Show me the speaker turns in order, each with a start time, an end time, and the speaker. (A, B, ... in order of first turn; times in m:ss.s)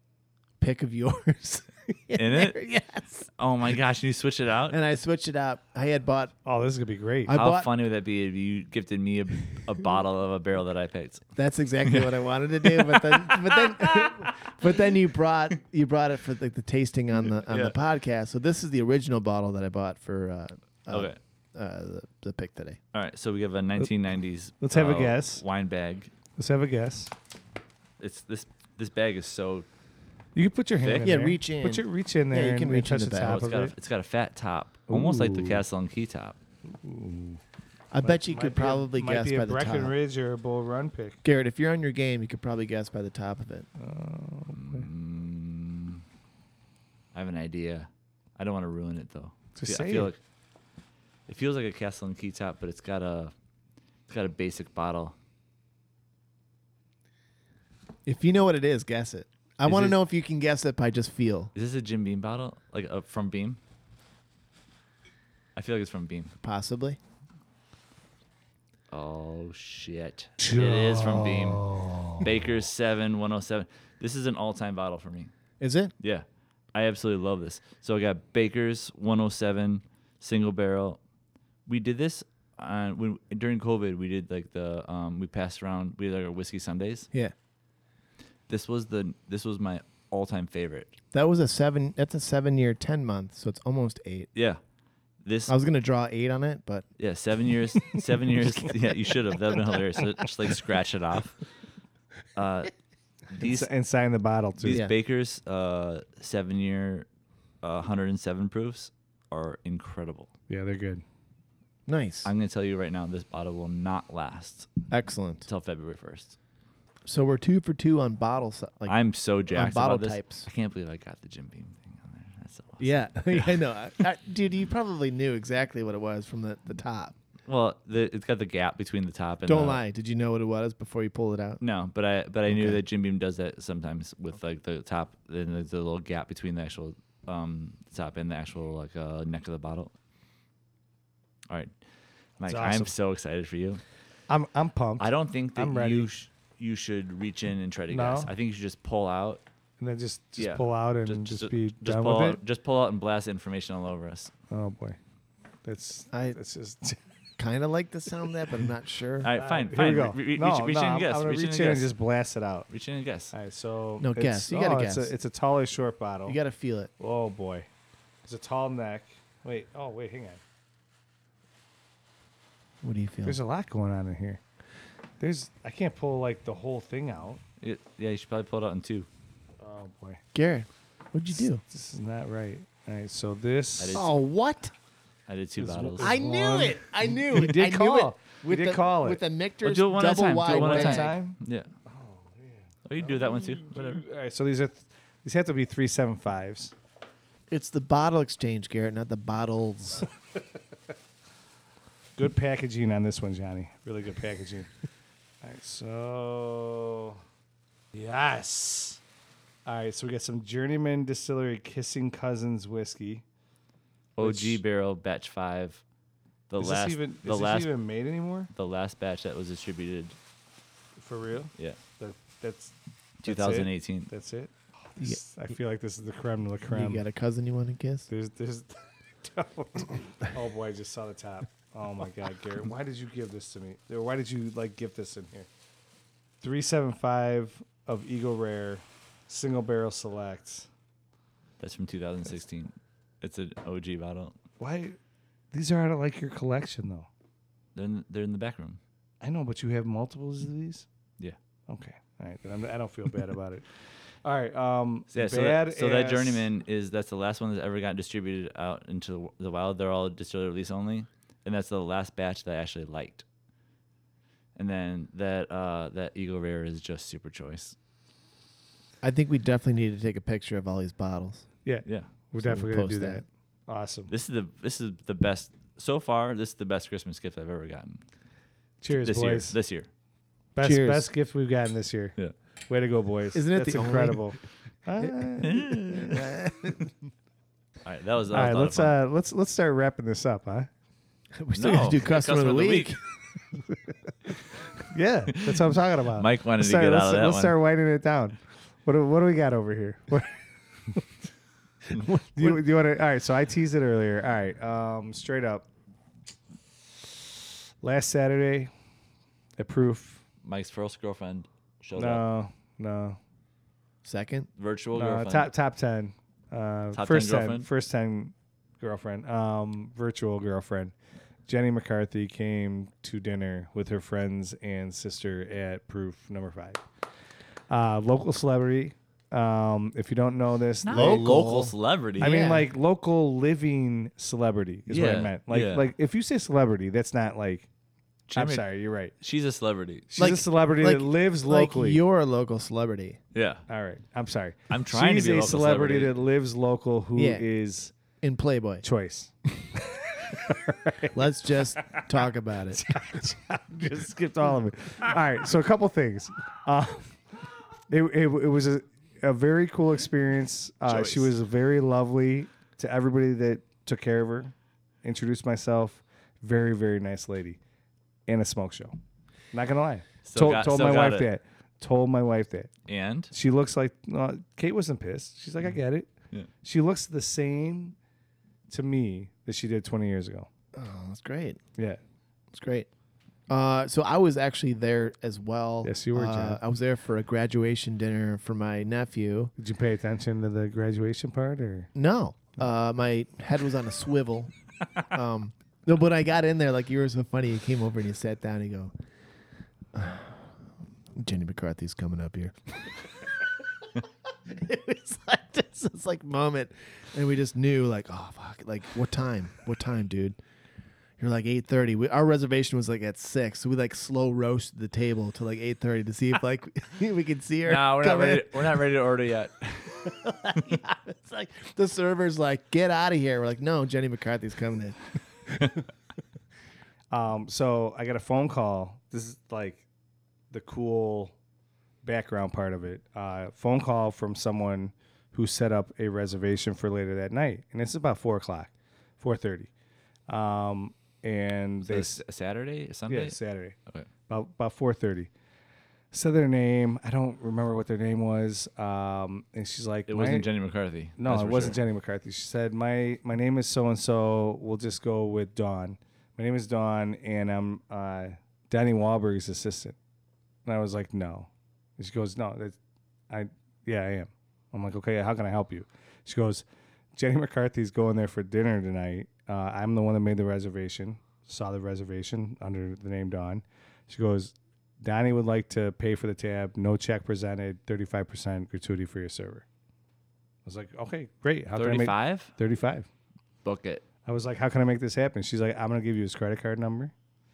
0:00.6-0:03.3 A
0:02.2-0:02.6 B
0:03.4-0:04.8 B
0:04.7-0:06.3 A
0:06.4-0:07.3 C
0:07.3-0:07.7 A
0:07.3-0:11.3 B
0:11.4-0:22.8 A
0:11.8-0:14.5 B
0:17.5-0:17.8 B
0:20.9-0:21.2 B
0:22.9-0:26.1 B
0:24.6-0:25.4 C
0:26.4-0:27.1 C
0:28.0-0:29.7 B
0:30.4-0:33.7 C
0:30.8-0:31.1 B
0:31.0-0:33.4 A
0:33.2-0:36.4 B
0:34.9-0:35.6 C
0:36.7-0:37.4 C
0:37.9-0:39.9 A
0:38.0-0:41.2 C
0:41.2-0:43.7 A
0:43.8-0:44.9 C
0:44.5-0:46.0 B
0:47.1-0:50.2 B
0:49.6-0:50.1 C
0:51.3-0:53.3 B
0:54.1-0:55.2 B
0:58.1-1:01.5 A
0:59.6-1:00.0 B
1:01.6-1:03.6 B
1:05.6-1:06.3 B
1:06.4-1:07.0 A
1:08.9-1:15.3 B
1:10.4-1:12.3 C
1:15.6-1:15.9 A
1:16.0-1:21.0 B
1:21.7-1:27.1 B
1:28.5-1:31.0 B
1:31.1-1:34.3 A
1:34.4-1:34.6 B
1:35.2-1:35.5 B
1:35.5-1:36.9 A
1:37.0-1:41.4 B
1:42.4-1:42.7 B
1:43.3-1:43.7 B
1:43.4-1:44.8 C
1:44.6-1:47.1 B
1:44.7-1:44.9 A
1:47.6-1:50.3 B
1:50.5-1:51.0 C
1:51.9-1:52.3 A
1:52.2-1:54.8 B
1:54.9-1:55.5 A
1:55.5-1:56.4 B
1:57.1-1:59.0 A
1:58.9-2:03.6 B
1:59.5-2:00.5 A
2:02.8-2:07.1 A
2:07.5-2:09.8 B
2:09.5-2:11.6 A
2:11.6-2:19.9 B
2:12.5-2:12.8 A
2:22.4-2:23.8 B
2:22.5-2:22.9 C
2:24.3-2:26.1 C
2:25.0-2:29.4 B
2:27.9-2:28.3 C
2:29.8-2:32.4 C
2:30.4-2:34.3 B
2:34.5-2:35.0 C
2:35.6-2:37.0 C
2:36.1-2:36.4 A
2:37.4-2:39.3 A
2:39.2-2:41.9 B
2:39.4-2:42.7 C
2:42.7-2:43.3 B
2:43.3-2:46.4 C
2:44.0-2:45.1 A
2:46.3-2:46.9 A
2:47.0-2:47.7 C
2:48.2-2:50.4 C
2:52.8-2:53.4 A
2:53.2-2:54.4 C
2:55.2-2:57.4 C
2:57.6-2:59.1 B
2:59.6-3:00.2 C
3:00.3-3:01.6 A
3:01.6-3:04.1 C
3:03.8-3:04.1 B
3:03.9-3:04.7 A
3:05.3-3:06.2 B
3:05.6-3:09.2 C
3:06.0-3:11.2 A
3:09.6-3:11.7 B
3:10.4-3:16.7 C
3:12.8-3:14.0 B
3:17.5-3:20.1 A
3:22.2-3:24.7 C
3:25.4-3:27.2 C
3:27.9-3:29.0 C
3:29.7-3:33.2 C
3:34.2-3:35.8 B
3:34.2-3:34.6 C
3:36.5-3:37.7 B
3:36.6-3:38.5 C
3:38.5-3:40.2 B
3:41.0-3:47.0 C
3:43.2-3:44.1 B
3:45.0-3:45.2 A
3:46.7-3:48.1 A
3:48.1-3:55.5 C
3:56.4-4:00.7 C
4:01.6-4:04.4 B
4:04.6-4:05.0 C
4:05.5-4:07.1 C
4:07.8-4:08.8 B
4:09.2-4:10.9 C
4:11.7-4:13.7 C
4:14.2-4:16.5 C
4:15.1-4:23.2 B
4:24.6-4:27.8 B
4:29.0-4:31.5 A
4:31.6-4:34.1 C
4:32.4-4:33.2 A
4:34.1-4:38.0 B
4:38.8-4:39.6 C
4:38.9-4:39.9 B
4:40.6-4:42.2 C
4:40.6-4:41.1 A
4:42.7-4:46.2 C
4:43.3-4:44.4 A
4:45.4-4:46.3 B
4:45.9-4:46.8 A
4:47.8-4:49.0 B
4:48.3-4:50.7 C
4:51.4-4:53.0 A
4:51.5-4:53.0 B
4:54.8-5:01.1 C
4:55.3-4:57.6 B
5:01.9-5:02.6 A
5:02.4-5:05.7 C
5:07.8-5:08.7 C
5:09.6-5:10.2 C
5:10.4-5:12.2 B
5:12.0-5:13.2 C
5:14.0-5:14.5 A
5:14.6-5:15.5 B
5:14.9-5:20.9 C
5:16.9-5:17.7 B
5:21.5-5:26.8 C
5:27.7-5:31.2 C
5:30.8-5:32.4 B
5:30.9-5:32.7 A
5:32.2-5:37.7 C
5:34.9-5:35.9 B
5:38.3-5:38.7 B
5:38.3-5:39.1 C
5:39.2-5:40.1 B
5:40.1-5:42.0 C
5:40.2-5:43.2 A
5:43.3-5:43.6 B
5:43.7-5:47.9 C
5:44.7-5:46.2 B
5:47.2-5:47.4 A
5:48.2-5:48.8 A
5:48.8-5:57.2 C
5:51.1-5:53.2 A
5:57.9-6:07.6 C
6:00.9-6:01.3 B
6:08.3-6:09.0 C
6:09.5-6:12.7 C
6:10.2-6:11.3 B
6:12.9-6:13.3 B
6:13.3-6:16.1 C
6:16.6-6:18.0 C
6:18.7-6:20.5 C
6:20.7-6:21.6 A
6:22.5-6:22.9 A
6:23.5-6:29.5 A
6:25.8-6:26.6 C
6:29.6-6:31.9 C
6:32.0-6:34.5 A
6:35.1-6:38.9 A
6:39.9-6:40.5 A
6:41.2-6:43.0 A
6:44.5-6:50.4 A
6:51.2-6:58.8 A
6:57.7-7:00.0 B
7:00.0-7:05.7 A
7:07.1-7:09.8 C
7:10.5-7:11.3 C
7:12.0-7:19.7 C
7:20.3-7:22.2 C
7:21.8-7:24.1 B
7:23.1-7:23.8 C
7:24.3-7:25.3 C
7:26.1-7:30.5 C
7:30.1-7:31.8 B
7:31.2-7:40.0 C
7:40.6-7:42.8 C
7:43.3-7:46.6 C
7:47.2-7:59.6 C
8:00.6-8:03.1 C
8:01.7-8:02.5 B
8:03.6-8:04.0 B
8:04.3-8:07.1 C